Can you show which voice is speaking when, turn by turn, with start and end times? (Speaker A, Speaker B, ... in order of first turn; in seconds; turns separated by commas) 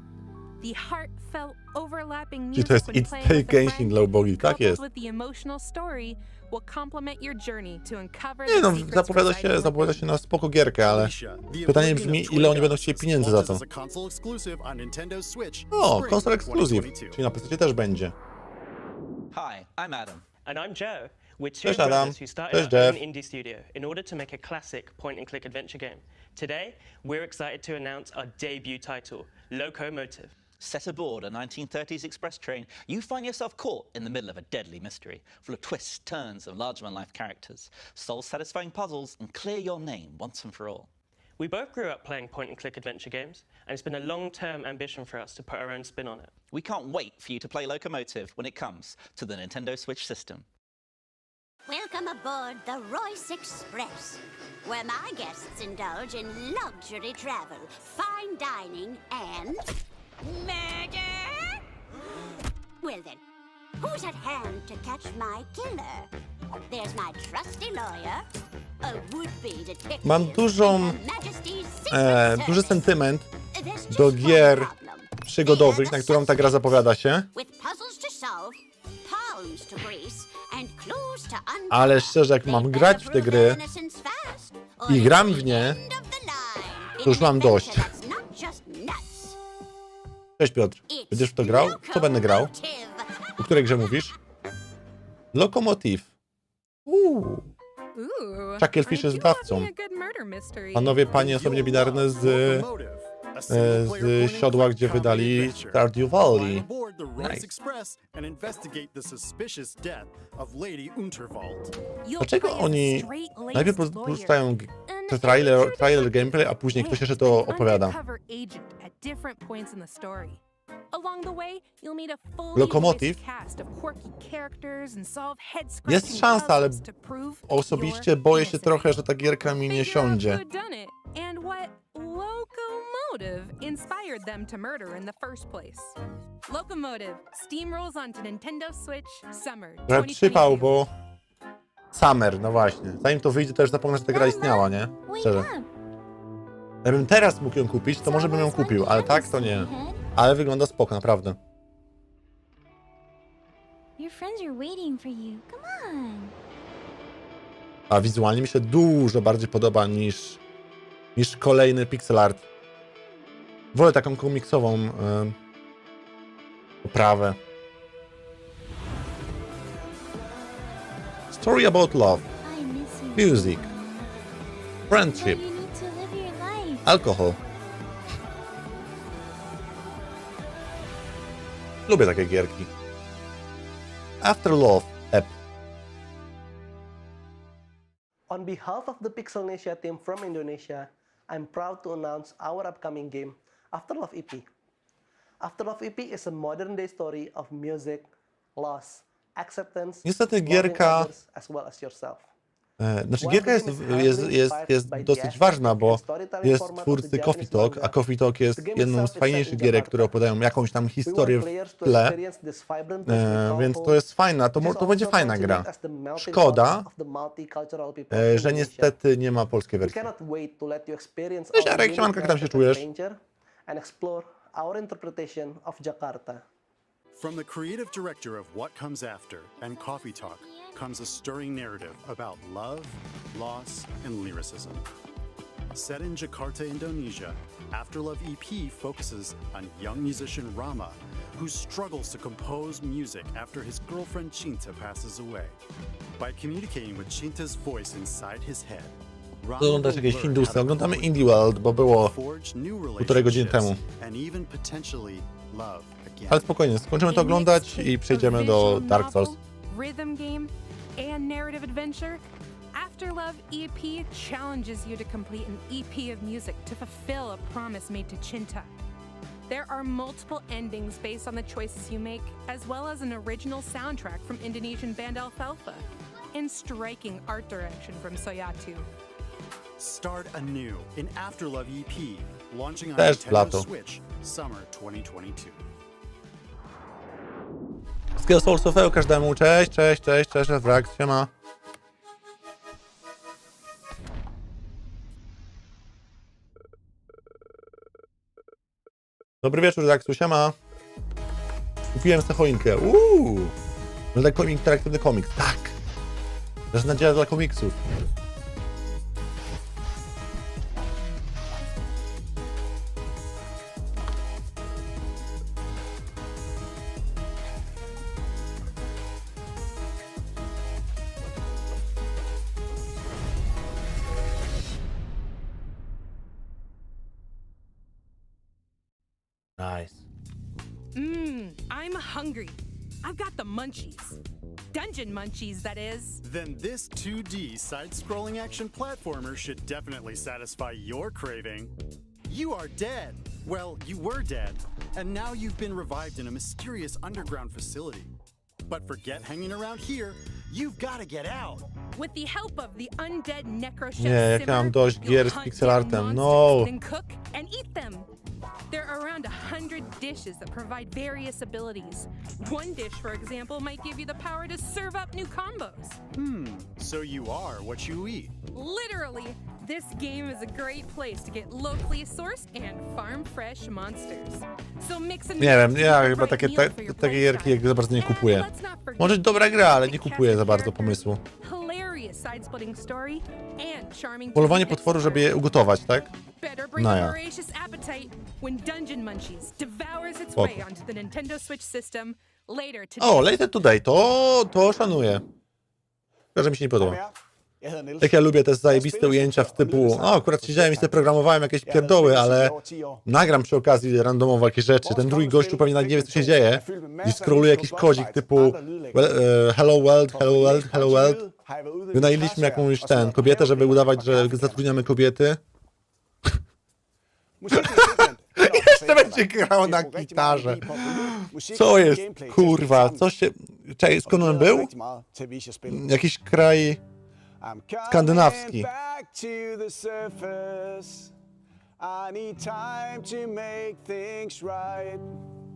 Speaker A: 0.6-10.0, Speaker B: 2.5-4.8, Speaker B: 8.5-11.1, Speaker C: 10.9-17.2, Speaker B: 11.7-13.6, Speaker B: 15.7-18.1, Speaker D: 19.3-20.2, Speaker E: 20.4-30.3, Speaker B: 21.6-23.0, Speaker D: 30.6-40.9, Speaker E: 41.4-46.3, Speaker D: 46.5-50.5, Speaker F: 51.7-59.7, Speaker F: 60.2-61.6, Speaker F: 62.8-63.2, Speaker F: 63.8-66.1, Speaker F: 66.7-68.2, Speaker F: 68.8-73.0, Speaker B: 70.0-71.0, Speaker B: 71.9-73.3, Speaker F: 73.5-89.4, Speaker B: 73.9-74.7, Speaker B: 75.2-77.3, Speaker B: 81.7-83.6, Speaker B: 84.9-85.8, Speaker B: 87.0-87.9, Speaker B: 90.4-92.5, Speaker F: 90.9-93.1, Speaker B: 93.4-94.1, Speaker B: 95.3-96.1, Speaker B: 96.8-97.5, Speaker A: 97.9-101.1, Speaker B: 98.6-99.7, Speaker B: 100.7-102.7, Speaker C: 101.1-111.7, Speaker B: 103.5-106.7, Speaker B: 107.2-107.5, Speaker A: 112.0-120.4, Speaker B: 112.2-118.0, Speaker A: 120.9-128.9, Speaker B: 122.5-123.2, Speaker B: 125.9-126.8, Speaker B: 127.5-130.4, Speaker A: 129.5-140.7, Speaker B: 139.9-140.9, Speaker B: 141.9-145.5, Speaker G: 144.1-145.7, Speaker B: 146.8-151.4, Speaker G: 148.0-150.0, Speaker G: 154.0-156.3, Speaker B: 157.9-160.4, Speaker B: 161.2-162.4, Speaker B: 163.7-165.3, Speaker B: 166.8-167.4, Speaker B: 171.3-172.3, Speaker G: 172.4-174.3, Speaker B: 173.1-173.6, Speaker B: 174.9-175.4, Speaker G: 174.9-177.1, Speaker B: 176.8-177.4, Speaker B: 181.9-182.7, Speaker B: 184.2-185.3, Speaker H: 188.3-194.5, Speaker H: 195.4-202.3, Speaker B: 200.0-201.1, Speaker B: 202.8-212.2, Speaker H: 203.2-207.9, Speaker H: 208.5-210.2, Speaker H: 211.0-214.0, Speaker B: 213.1-216.9, Speaker H: 214.6-218.9, Speaker B: 218.1-220.1, Speaker H: 219.8-226.4, Speaker B: 221.5-222.8, Speaker C: 227.1-234.9, Speaker G: 229.6-230.9, Speaker C: 235.7-245.6, Speaker C: 246.2-256.5, Speaker B: 249.6-252.1, Speaker B: 253.0-253.8, Speaker B: 256.3-259.3, Speaker A: 257.1-262.2, Speaker A: 262.7-268.7, Speaker A: 269.5-278.9, Speaker C: 279.8-285.6, Speaker B: 283.0-283.7, Speaker B: 288.2-291.3, Speaker B: 299.4-300.6, Speaker B: 301.9-303.5, Speaker B: 304.1-305.8, Speaker B: 306.7-307.8, Speaker B: 329.6-330.0, Speaker A: 330.9-334.2, Speaker A: 334.7-336.2, Speaker C: 336.2-341.7, Speaker C: 342.3-348.1, Speaker C: 348.7-351.7, Speaker A: 351.9-358.1, Speaker B: 354.0-356.7, Speaker A: 358.7-366.0, Speaker C: 366.1-368.3, Speaker A: 368.5-385.4, Speaker B: 375.4-378.5, Speaker B: 379.0-381.2, Speaker B: 384.3-386.1, Speaker A: 386.4-393.4, Speaker B: 386.8-387.1, Speaker B: 390.4-390.6, Speaker B: 393.0-395.2, Speaker B: 396.3-397.0, Speaker I: 396.7-403.0, Speaker B: 398.0-411.2, Speaker I: 404.8-409.3, Speaker I: 410.0-414.7, Speaker B: 411.9-415.4, Speaker I: 417.4-423.0, Speaker B: 417.6-424.7, Speaker I: 424.0-425.9, Speaker B: 425.7-426.8, Speaker I: 427.4-431.1, Speaker B: 427.9-428.7, Speaker I: 431.8-435.1